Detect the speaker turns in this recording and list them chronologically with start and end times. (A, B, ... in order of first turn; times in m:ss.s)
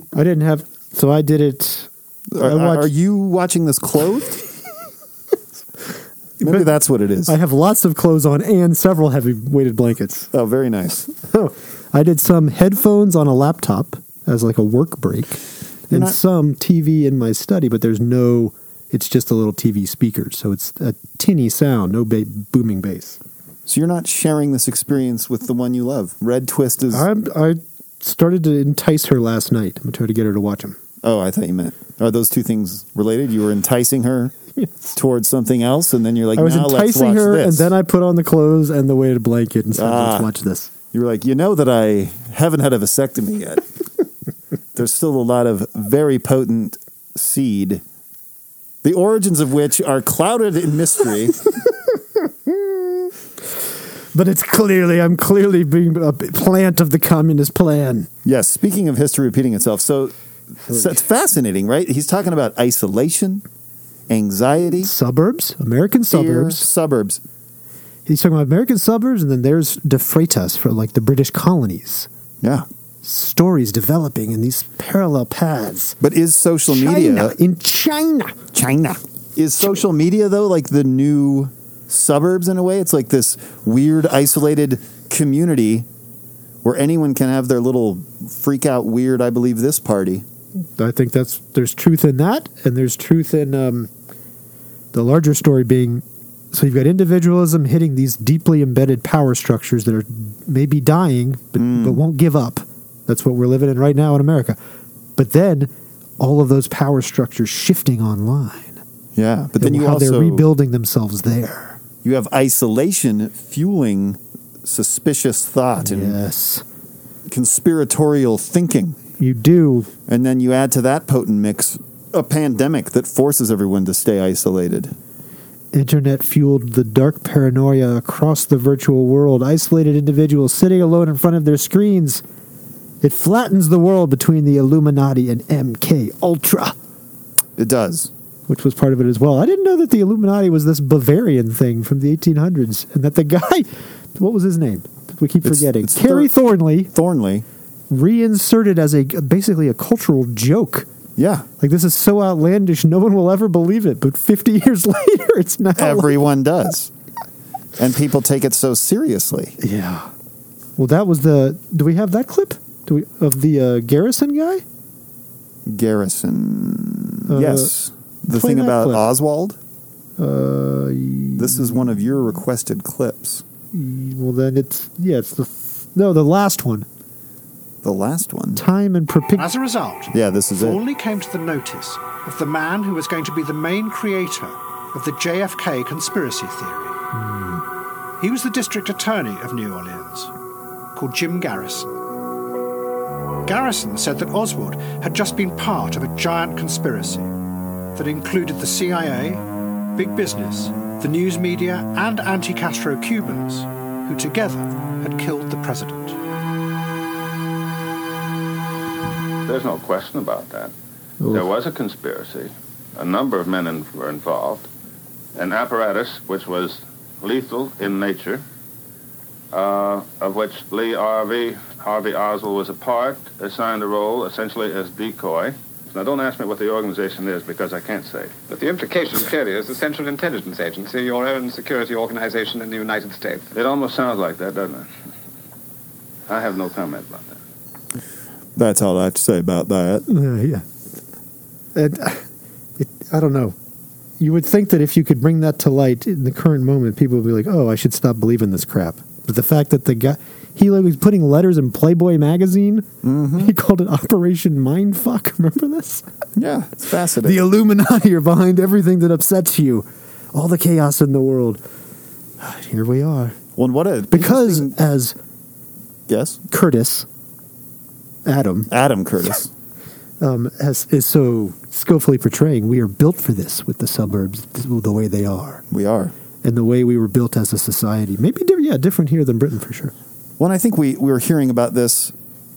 0:00.1-0:02.9 A
0:02.3-0:04.4 B
0:06.4-0:07.4 B
0:06.4-0:06.7 A
0:07.3-0:10.3 A
0:10.3-0:11.1 B
0:11.3-0:23.2 A
0:15.9-0:16.2 B
0:23.7-0:27.1 B
0:26.9-0:30.8 A
0:31.0-0:34.4 B
0:34.9-0:37.7 B
0:36.4-0:40.7 A
0:39.8-0:40.3 B
0:40.9-0:43.7 B
0:44.7-0:47.8 B
0:48.8-0:51.5 B
0:54.1-0:58.1 A
0:58.2-1:03.4 B
1:04.1-1:04.9 B
1:04.8-1:06.7 A
1:06.1-1:07.2 B
1:08.1-1:12.1 A
1:13.0-1:16.0 A
1:16.0-1:17.4 B
1:16.7-1:18.4 A
1:18.5-1:25.9 B
1:26.6-1:30.2 B
1:30.8-1:33.9 A
1:34.9-1:44.6 A
1:41.6-1:42.0 B
1:45.2-1:48.8 A
1:49.2-1:50.5 B
1:49.6-1:51.8 A
1:52.0-1:56.2 B
1:55.8-1:56.6 A
1:57.3-1:59.0 B
1:59.2-1:59.9 A
2:00.1-2:05.0 B
2:05.7-2:12.2 A
2:13.0-2:16.8 A
2:17.6-2:18.1 B
2:18.5-2:26.9 A
2:25.4-2:26.4 B
2:26.9-2:27.4 B
2:27.9-2:30.9 A
2:31.2-2:31.5 B
2:31.6-2:36.2 A
2:35.8-2:36.9 B
2:37.8-2:39.6 B
2:39.6-2:40.1 A
2:40.8-2:44.6 A
2:45.7-2:49.6 B
2:47.3-2:47.7 A
2:48.3-2:49.1 A
2:50.2-2:51.8 A
2:51.4-2:53.4 B
2:53.7-2:56.9 A
2:57.8-2:58.6 B
2:58.6-2:59.5 A
2:59.4-3:07.0 C
3:00.1-3:00.8 B
3:07.2-3:07.6 A
3:08.2-3:10.3 C
3:11.0-3:12.0 C
3:13.5-3:17.3 C
3:18.0-3:19.4 C
3:20.0-3:26.2 C
3:29.5-3:30.7 D
3:31.2-3:31.5 A
3:31.3-3:34.7 D
3:35.4-3:38.4 D
3:39.5-3:48.4 D
3:48.5-3:53.5 E
3:53.5-3:54.9 D
3:56.3-3:57.4 D
3:58.6-4:00.1 B
4:00.1-4:00.6 A
4:01.8-4:02.2 A
4:02.8-4:03.6 A
4:04.2-4:16.0 A
4:13.0-4:13.5 B
4:16.4-4:17.4 B
4:17.2-4:21.6 A
4:22.4-4:23.4 A
4:23.6-4:24.8 B
4:24.1-4:25.2 A
4:26.1-4:26.4 B
4:26.5-4:27.1 A
4:28.2-4:28.7 A
4:28.7-4:29.5 B
4:30.2-4:35.6 A
4:35.7-4:36.1 B
4:36.4-4:39.9 A
4:40.4-4:42.1 B